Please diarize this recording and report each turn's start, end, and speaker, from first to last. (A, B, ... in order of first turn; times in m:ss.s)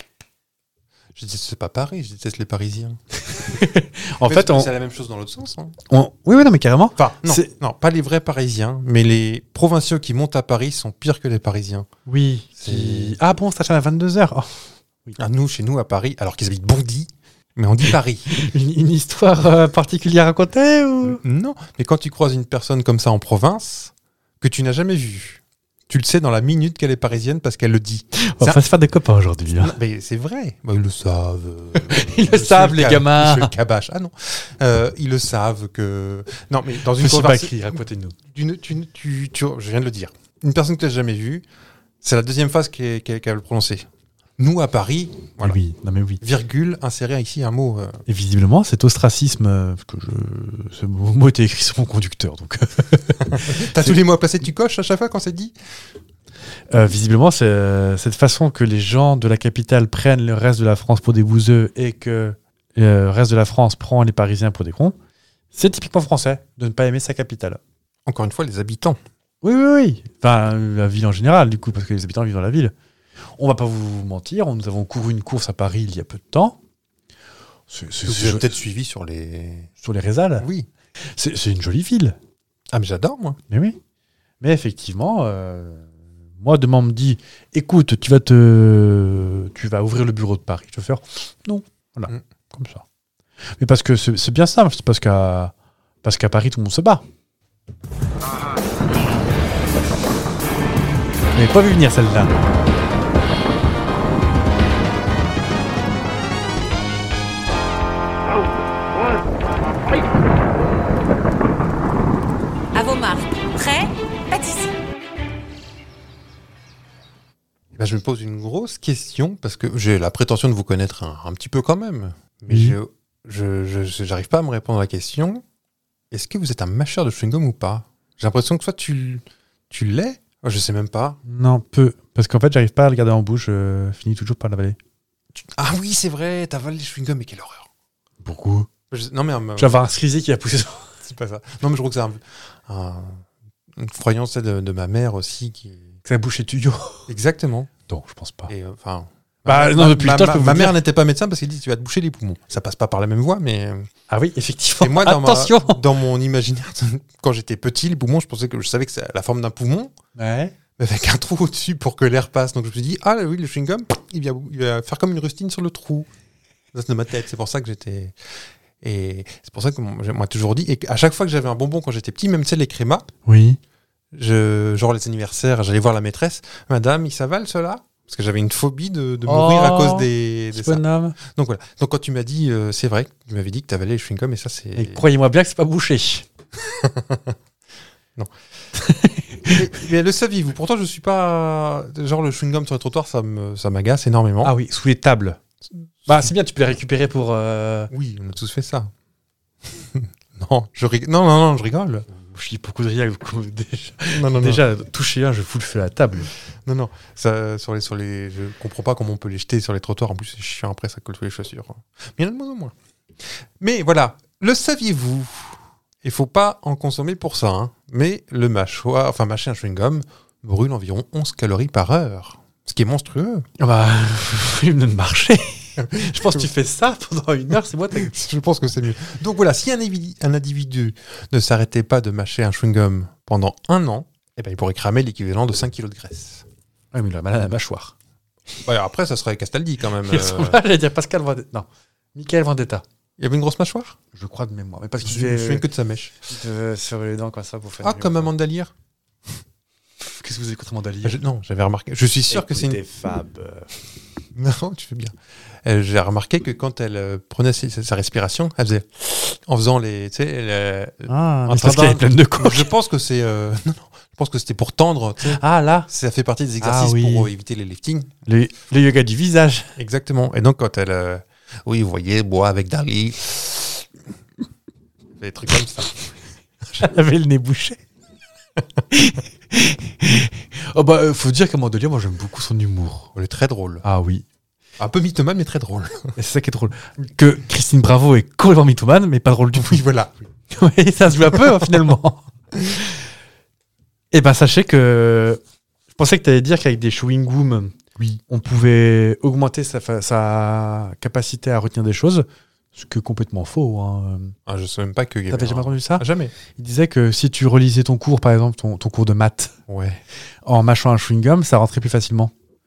0:01.2-0:03.0 A
0:03.3-0:04.7 B
0:04.2-0:05.8 A
0:05.9-0:07.5 B
0:07.0-0:11.9 A
0:12.1-0:15.2 B
0:12.6-0:13.2 A
0:15.2-0:18.3 A
0:18.3-0:21.2 B
0:21.1-0:28.6 A
0:28.2-0:29.8 B
0:29.6-0:37.6 A
0:31.8-0:33.5 B
0:37.0-0:38.2 B
0:38.3-0:41.4 A
0:42.0-0:43.9 A
0:44.4-0:45.6 A
0:45.4-0:46.2 B
0:46.2-0:48.0 A
0:48.1-0:54.0 B
0:53.3-0:55.6 A
0:56.7-1:05.0 B
1:05.5-1:07.6 B
1:08.1-1:09.0 A
1:09.4-1:12.7 B
1:13.4-1:16.6 B
1:17.7-1:18.6 B
1:18.1-1:19.7 A
1:19.8-1:20.5 B
1:20.4-1:20.7 A
1:21.1-1:22.2 B
1:22.7-1:23.4 A
1:23.5-1:23.8 B
1:24.4-1:25.9 B
1:26.4-1:32.8 B
1:33.6-1:37.0 B
1:41.4-1:42.4 B
1:52.8-1:54.8 C
1:57.8-2:05.4 A
2:02.5-2:02.8 B
2:06.1-2:11.2 A
2:11.3-2:14.8 B
2:15.4-2:17.7 A
2:18.2-2:18.7 B
2:18.9-2:19.8 A
2:19.6-2:20.9 B
2:21.0-2:25.9 A
2:26.0-2:27.1 B
2:27.1-2:27.7 A
2:27.9-2:28.5 B
2:28.5-2:33.9 A
2:29.5-2:30.8 B
2:34.1-2:35.8 B
2:34.8-2:39.9 A
2:40.2-2:40.6 B
2:40.8-2:46.1 A
2:46.7-2:53.1 A
2:53.3-2:53.6 B
2:54.1-3:05.0 A
2:59.3-3:01.2 B
3:04.8-3:06.3 B
3:06.6-3:07.4 A
3:08.8-3:09.6 B
3:09.5-3:14.6 A
3:14.4-3:15.4 B
3:16.1-3:17.9 B
3:17.9-3:18.9 A
3:19.6-3:22.1 A
3:22.3-3:26.3 B
3:24.1-3:24.6 A
3:26.6-3:32.8 A
3:33.6-3:43.5 A
3:43.6-3:48.2 B
3:45.8-3:46.5 A
3:47.9-3:56.5 A
3:56.9-3:58.0 B
3:58.6-4:00.6 A
4:00.0-4:02.8 B
4:03.2-4:04.0 A
4:04.1-4:05.7 B
4:05.0-4:06.2 A
4:06.3-4:08.3 B
4:07.8-4:08.7 A
4:10.0-4:11.2 B
4:11.0-4:12.8 A
4:12.3-4:13.8 B
4:14.4-4:28.2 A
4:21.1-4:22.7 B
4:25.2-4:25.9 B
4:26.6-4:27.3 B
4:28.3-4:29.7 B
4:29.8-4:33.8 A
4:35.2-4:36.1 A
4:36.7-4:37.8 B
4:38.9-4:43.1 B
4:43.1-4:43.8 A
4:43.8-4:44.2 B
4:44.8-4:46.1 A
4:46.2-4:49.8 B
4:49.6-4:50.2 A
4:50.5-4:52.3 B
4:51.2-4:51.9 A
4:54.1-4:55.4 B
4:55.9-4:57.8 B
4:58.3-5:04.4 B
5:04.5-5:06.3 A
5:05.3-5:09.6 B
5:09.7-5:10.0 A
5:10.5-5:12.3 B